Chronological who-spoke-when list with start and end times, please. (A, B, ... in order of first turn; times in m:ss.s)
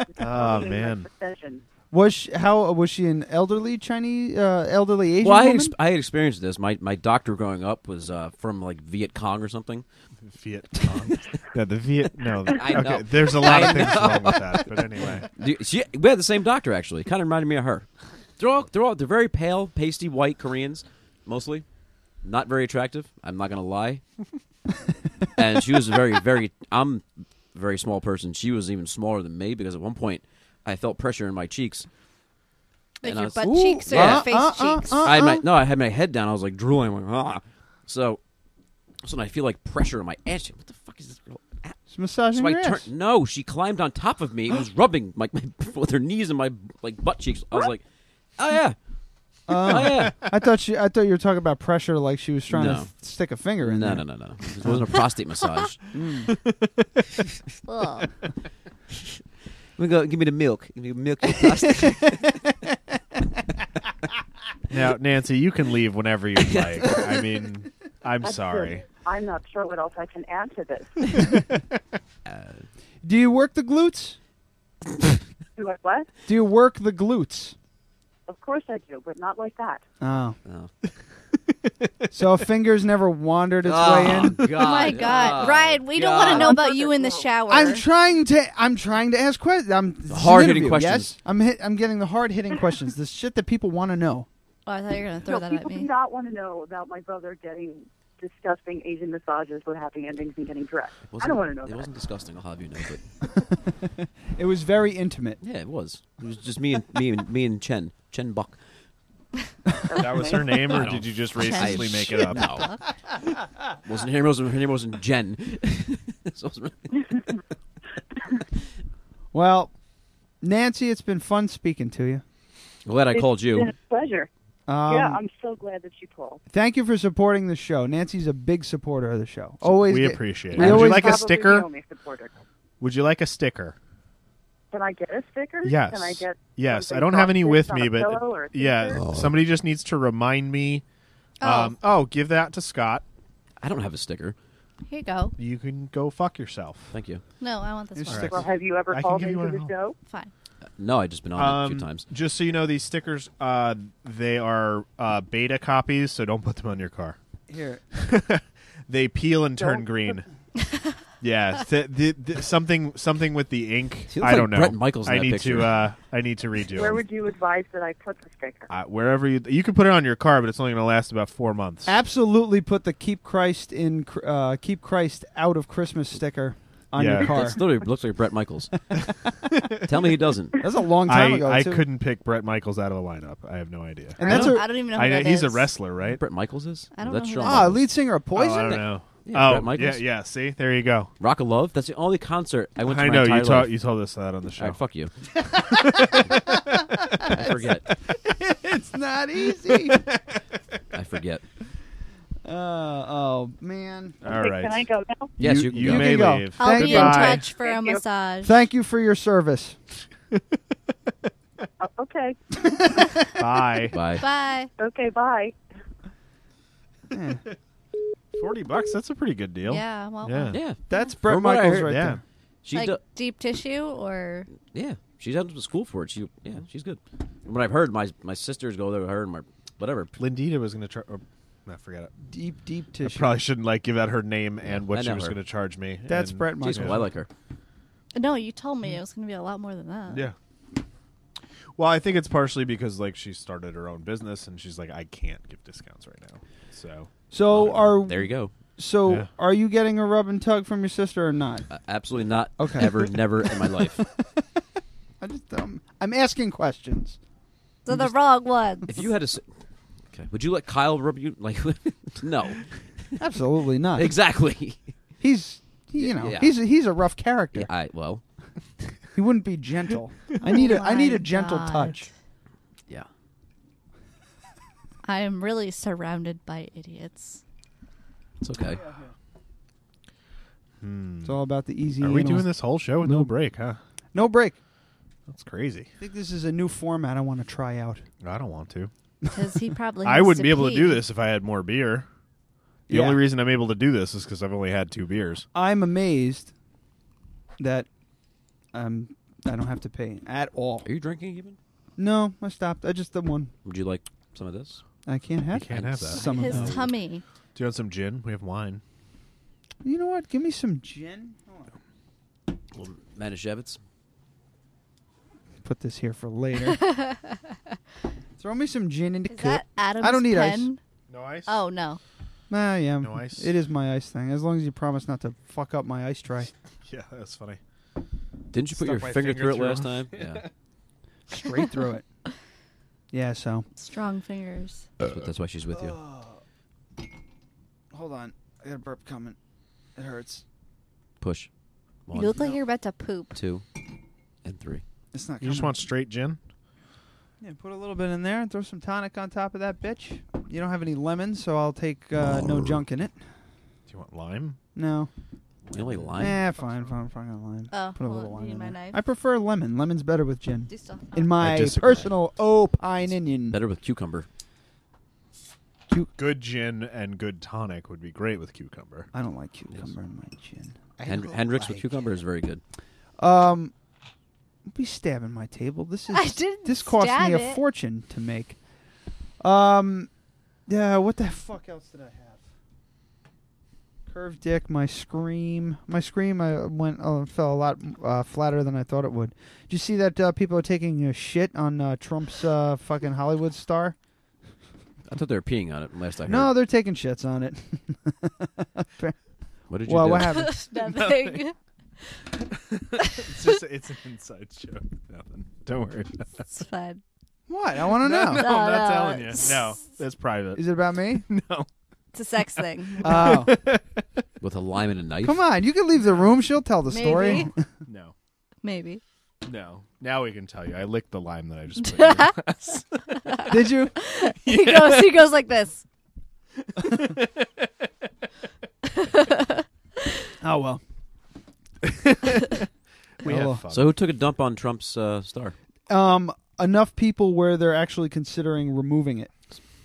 0:00.2-0:01.6 A
0:00.2-0:01.1 B
0:01.9-0:05.7 C
0:05.2-0:09.8 D
0:10.2-0:15.3 B
0:12.5-0:17.9 D
0:18.4-0:21.6 D
0:22.2-0:24.0 D
0:25.4-0:31.9 D
0:33.0-0:35.1 E
0:33.0-0:34.3 D
0:33.5-0:35.4 C
0:35.0-0:38.2 D
0:39.0-0:41.8 D
0:41.9-0:42.9 C
0:42.3-0:47.8 D
0:48.4-0:48.8 D
0:49.5-0:54.0 C
0:49.5-0:50.2 D
0:52.5-0:52.9 D
0:53.6-0:56.0 D
0:55.9-0:56.3 C
0:57.6-0:58.1 E
0:59.8-1:02.3 D
1:04.7-1:08.8 B
1:06.4-1:07.2 D
1:08.2-1:11.2 A
1:12.2-1:12.6 D
1:13.0-1:14.2 C
1:15.6-1:16.1 A
1:16.2-1:17.5 C
1:18.3-1:19.8 A
1:20.0-1:20.4 C
1:20.4-1:20.7 D
1:22.1-1:24.5 C
1:23.6-1:26.6 D
1:24.6-1:27.8 E
1:25.0-1:25.4 A
1:26.1-1:27.3 A
1:27.5-1:34.3 C
1:30.1-1:31.2 D
1:34.6-1:35.9 E
1:35.3-1:41.9 A
1:41.1-1:43.0 D
1:43.6-1:45.4 C
1:45.4-1:48.6 D
1:49.9-1:50.7 A
1:49.9-1:52.7 B
1:50.7-1:52.7 D
1:51.3-1:52.8 E
1:53.8-1:57.2 D
1:59.3-1:59.7 C
2:00.4-2:02.2 C
2:02.8-2:03.7 D
2:03.1-2:04.3 A
2:04.7-2:05.2 C
2:04.9-2:06.4 A
2:06.5-2:11.2 C
2:09.6-2:11.7 B
2:10.6-2:11.0 D
2:10.6-2:12.3 A
2:12.8-2:13.8 B
2:14.7-2:19.0 A
2:15.6-2:20.8 B
2:18.9-2:19.4 D
2:21.4-2:21.7 E
2:21.4-2:23.0 B
2:23.6-2:24.4 D
2:24.9-2:25.3 E
2:25.4-2:26.9 B
2:26.9-2:27.2 D
2:27.4-2:28.4 E
2:27.9-2:28.4 C
2:28.1-2:29.7 B
2:28.3-2:30.0 A
2:30.0-2:30.3 E
2:30.8-2:32.0 D
2:31.3-2:37.2 B
2:37.5-2:37.8 C
2:37.9-2:40.2 B
2:39.6-2:40.2 A
2:41.2-2:47.0 B
2:44.1-2:45.7 D
2:46.7-2:48.7 A
2:48.7-2:51.9 B
2:51.8-2:57.6 C
2:56.9-2:57.5 B
2:57.2-2:58.9 D
2:59.5-2:59.8 B
2:59.8-3:00.6 D
3:00.6-3:01.8 C
3:01.0-3:06.2 B
3:04.2-3:04.7 C
3:04.2-3:05.7 E
3:04.2-3:04.5 D
3:06.1-3:07.8 D
3:07.0-3:07.8 E
3:07.4-3:08.8 C
3:08.3-3:11.1 B
3:08.7-3:10.0 D
3:11.2-3:13.8 D
3:12.8-3:14.8 B
3:14.6-3:15.1 D
3:15.6-3:16.6 B
3:15.7-3:16.2 C
3:17.2-3:17.9 D
3:18.4-3:20.0 C
3:19.6-3:20.4 B
3:20.9-3:21.4 D
3:22.4-3:24.2 C
3:24.2-3:24.8 B
3:24.3-3:25.3 A
3:25.4-3:27.5 B
3:25.4-3:26.3 D
3:25.8-3:27.4 C
3:26.6-3:28.5 E
3:27.5-3:28.0 A
3:28.4-3:29.8 C
3:31.8-3:32.4 A
3:33.4-3:34.0 B
3:33.9-3:34.2 D
3:34.2-3:34.7 E
3:34.8-3:35.6 A
3:37.1-3:37.4 C
3:38.3-3:40.6 B
3:39.6-3:41.0 E
3:40.5-3:42.0 D
3:40.9-3:42.2 C
3:41.8-3:42.2 B
3:42.6-3:43.0 D
3:42.7-3:44.5 E
3:44.7-3:50.2 D
3:50.2-3:52.1 B
3:52.3-3:53.3 C
3:53.0-3:57.1 B
3:54.6-3:55.4 D
3:56.1-3:57.1 C
3:56.6-3:57.3 D
3:58.1-4:00.3 E
4:00.1-4:00.3 B
4:01.8-4:07.8 B
4:07.3-4:11.7 C
4:07.5-4:08.5 D
4:11.7-4:14.1 D
4:12.6-4:13.8 C
4:15.2-4:17.2 C
4:17.8-4:18.9 E
4:18.9-4:19.4 D
4:20.1-4:22.7 D
4:23.2-4:24.1 C
4:23.9-4:24.8 D
4:25.2-4:27.7 C
4:26.0-4:26.6 D
4:27.5-4:28.2 D
4:29.1-4:32.1 C
4:30.4-4:32.1 E
4:35.0-4:37.4 E
4:38.4-4:38.8 D
4:38.7-4:39.1 C
4:40.8-4:41.4 B
4:41.2-4:43.3 C
4:42.0-4:43.8 B
4:44.1-4:44.6 C
4:45.3-4:45.9 B
4:46.0-4:48.0 C
4:48.2-4:48.9 B
4:49.3-4:51.0 E
4:50.0-4:52.1 B
4:52.9-4:53.2 C
4:52.9-4:55.4 B
4:55.5-4:56.5 C
4:57.6-4:57.9 C
4:58.7-5:00.9 C
5:00.8-5:01.6 D
5:02.0-5:03.5 C
5:03.6-5:04.8 D
5:05.0-5:06.8 C
5:05.5-5:06.2 B
5:05.7-5:06.9 D
5:06.2-5:07.2 E
5:07.5-5:08.8 B
5:09.8-5:11.7 C
5:12.7-5:13.8 D
5:15.6-5:16.8 C
5:16.7-5:17.4 E
5:18.4-5:20.7 C
5:19.3-5:20.8 E
5:21.1-5:21.6 B
5:21.5-5:22.0 E
5:22.5-5:26.5 C
5:23.0-5:23.5 B
5:26.8-5:27.6 B
5:28.5-5:30.4 D
5:28.7-5:30.5 B
5:31.3-5:32.0 C
5:33.1-5:33.7 C
5:33.8-5:34.9 E
5:35.0-5:36.0 D
5:35.7-5:36.4 C
5:37.9-5:39.4 C
5:40.0-5:40.4 C
5:41.2-5:41.5 D
5:42.1-5:42.5 D
5:42.1-5:43.4 E
5:43.3-5:43.6 D
5:44.4-5:44.8 D
5:45.1-5:45.8 C
5:45.4-5:46.4 B
5:47.4-5:53.2 C
5:53.9-5:54.6 B
5:54.7-5:55.1 C
5:55.7-5:56.9 B
5:55.7-5:56.4 D
5:56.2-6:03.6 C
5:57.7-5:59.0 E
6:00.7-6:01.4 E
6:01.4-6:02.1 B
6:03.5-6:04.3 D
6:06.2-6:09.1 B
6:09.1-6:10.8 C
6:11.0-6:11.8 B
6:11.0-6:12.6 D
6:13.2-6:13.7 C
6:14.7-6:18.6 C
6:16.1-6:17.6 E
6:19.4-6:20.1 C
6:20.7-6:22.4 C
6:24.1-6:33.9 C
6:35.1-6:36.5 D
6:36.3-6:39.2 C
6:39.7-6:40.4 D
6:39.8-6:40.6 C
6:40.3-6:41.5 E
6:40.8-6:41.4 B
6:42.7-6:46.4 B
6:43.0-6:43.4 E
6:46.4-6:47.0 E
6:47.5-6:48.4 C
6:47.9-6:51.7 B
6:48.3-6:49.8 E
6:50.6-6:51.2 C
6:52.1-6:53.3 E
6:52.6-6:54.2 B
6:53.0-6:53.5 C
6:54.4-6:55.4 D
6:55.2-6:57.6 C
6:56.9-6:57.5 E
6:57.9-6:58.1 B
6:58.6-6:59.0 E
6:59.4-7:03.4 B
7:01.8-7:02.4 E
7:03.2-7:05.8 E
7:03.5-7:03.9 C
7:04.4-7:05.2 B
7:06.6-7:07.7 B
7:08.9-7:09.6 E
7:10.4-7:10.8 C
7:11.8-7:12.6 B
7:13.2-7:13.9 B
7:13.2-7:13.6 C
7:13.7-7:15.5 D
7:15.9-7:19.3 C